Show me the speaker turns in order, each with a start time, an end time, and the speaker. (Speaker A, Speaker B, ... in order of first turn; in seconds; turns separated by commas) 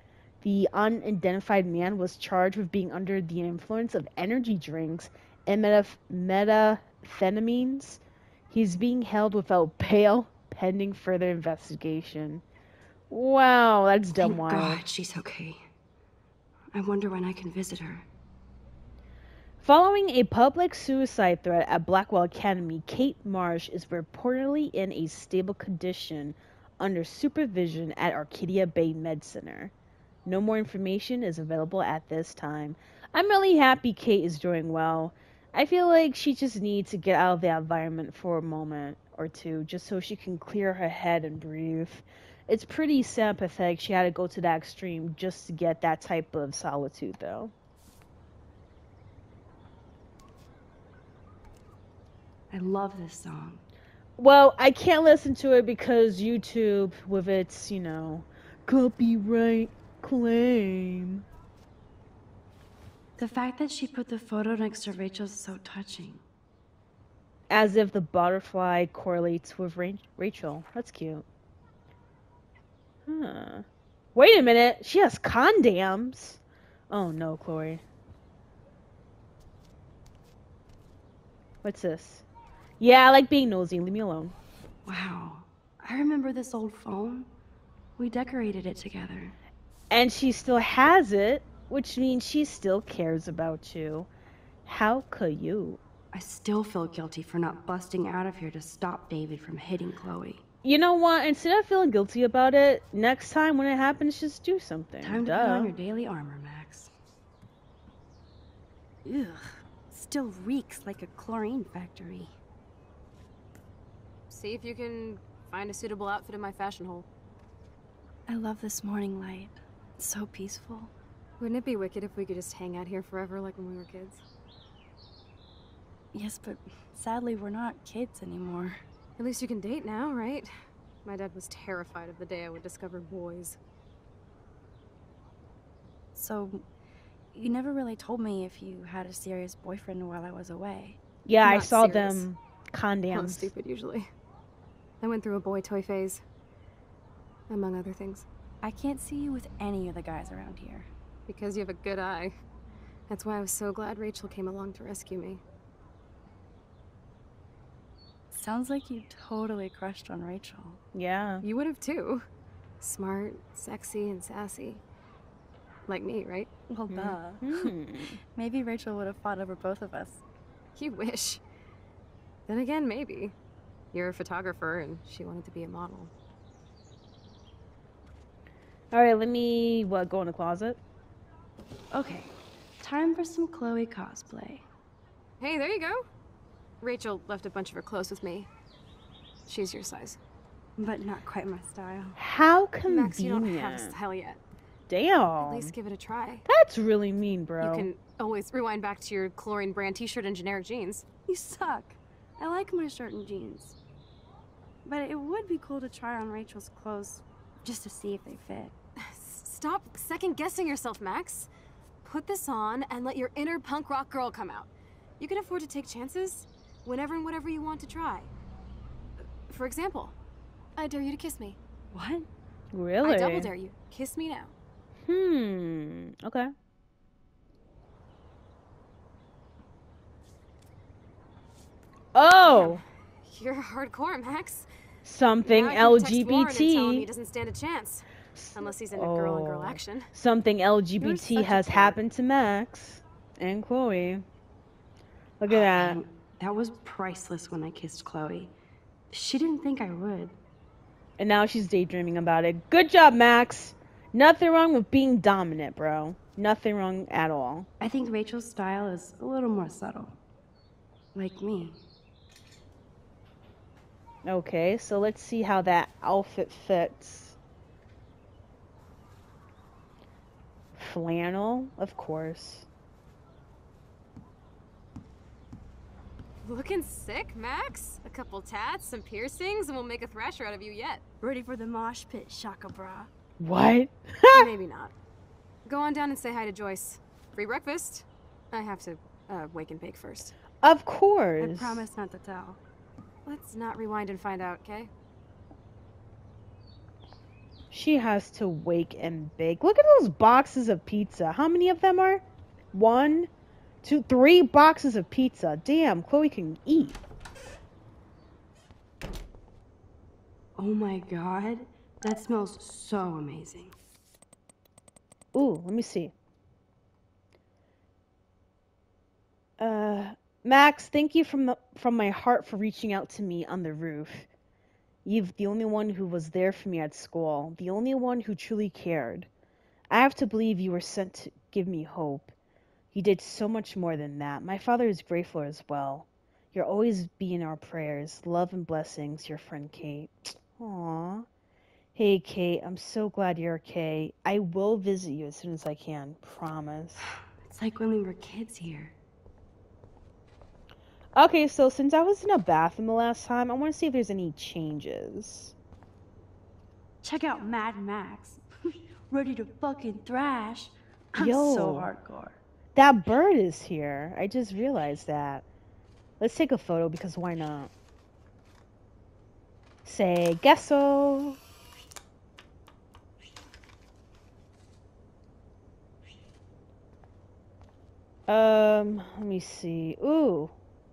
Speaker A: 0.4-12.4, Speaker A: 13.1-14.8, Speaker B: 14.1-15.6, Speaker B: 16.7-18.1, Speaker A: 19.6-29.7, Speaker A: 30.3-47.5, Speaker B: 52.5-53.6, Speaker A: 54.2-61.2, Speaker B: 63.2-66.2, Speaker A: 67.5-71.3, Speaker A: 73.1-77.8, Speaker A: 81.6-82.2, Speaker A: 82.8-84.3, Speaker B: 84.9-87.3, Speaker B: 88.0-89.4, Speaker A: 89.9-94.1, Speaker A: 94.7-95.8, Speaker B: 96.1-100.4, Speaker A: 100.6-105.7, Speaker B: 105.0-106.9, Speaker B: 109.0-112.3, Speaker C: 114.3-117.1, Speaker B: 118.3-120.9, Speaker C: 121.4-124.2, Speaker B: 126.1-128.8, Speaker C: 129.2-130.5, Speaker C: 131.1-133.6, Speaker B: 136.2-136.7, Speaker B: 137.3-141.0, Speaker A: 141.3-143.5, Speaker C: 141.4-142.3, Speaker C: 143.1-144.1, Speaker C: 145.0-146.2, Speaker C: 147.5-148.3, Speaker B: 148.6-150.9, Speaker C: 151.3-152.3, Speaker C: 153.1-155.4, Speaker B: 158.3-160.8, Speaker A: 160.9-161.4, Speaker C: 161.4-162.2, Speaker C: 162.8-164.8, Speaker C: 165.9-166.5, Speaker B: 166.7-167.7, Speaker A: 166.9-168.2, Speaker B: 168.3-170.2, Speaker C: 170.8-171.4, Speaker C: 172.5-173.3, Speaker C: 173.9-176.1, Speaker A: 178.9-180.8, Speaker B: 181.9-184.7, Speaker C: 185.4-186.1, Speaker C: 186.8-188.5, Speaker C: 189.5-190.2, Speaker B: 190.8-192.2, Speaker A: 192.2-193.9, Speaker C: 192.9-194.4, Speaker A: 194.9-195.7, Speaker C: 195.4-196.4, Speaker A: 196.5-197.9, Speaker C: 197.6-201.1, Speaker B: 201.3-203.8, Speaker B: 204.8-208.8, Speaker C: 209.0-211.5, Speaker C: 212.0-218.3, Speaker C: 219.5-220.2, Speaker C: 220.8-221.6, Speaker B: 221.9-222.3, Speaker A: 222.7-223.5, Speaker C: 223.0-224.5, Speaker A: 225.1-226.5, Speaker A: 232.2-232.8, Speaker C: 232.5-234.7, Speaker A: 235.1-237.1, Speaker C: 235.4-240.1, Speaker A: 238.4-244.2, Speaker C: 241.0-242.0, Speaker A: 245.4-246.0, Speaker B: 245.5-248.5, Speaker B: 249.1-250.4, Speaker A: 251.2-257.7, Speaker B: 257.8-260.1, Speaker B: 261.1-261.8, Speaker A: 264.2-267.4, Speaker A: 270.8-272.7, Speaker C: 276.4-281.0, Speaker B: 281.2-283.1, Speaker A: 283.4-284.5, Speaker C: 284.3-284.9, Speaker C: 285.7-290.4, Speaker A: 290.6-291.9, Speaker B: 291.4-292.6, Speaker C: 293.3-294.9, Speaker A: 297.7-303.3, Speaker A: 303.8-307.0, Speaker B: 310.6-313.8, Speaker A: 315.3-316.1, Speaker A: 319.6-324.3, Speaker A: 325.1-329.3, Speaker A: 329.9-332.3, Speaker A: 332.9-341.3, Speaker A: 341.9-347.0, Speaker B: 347.4-348.9, Speaker A: 351.1-355.5, Speaker B: 357.0-362.4, Speaker A: 361.2-361.9, Speaker A: 362.8-365.4, Speaker A: 366.2-367.7, Speaker A: 369.9-371.4, Speaker A: 378.3-380.5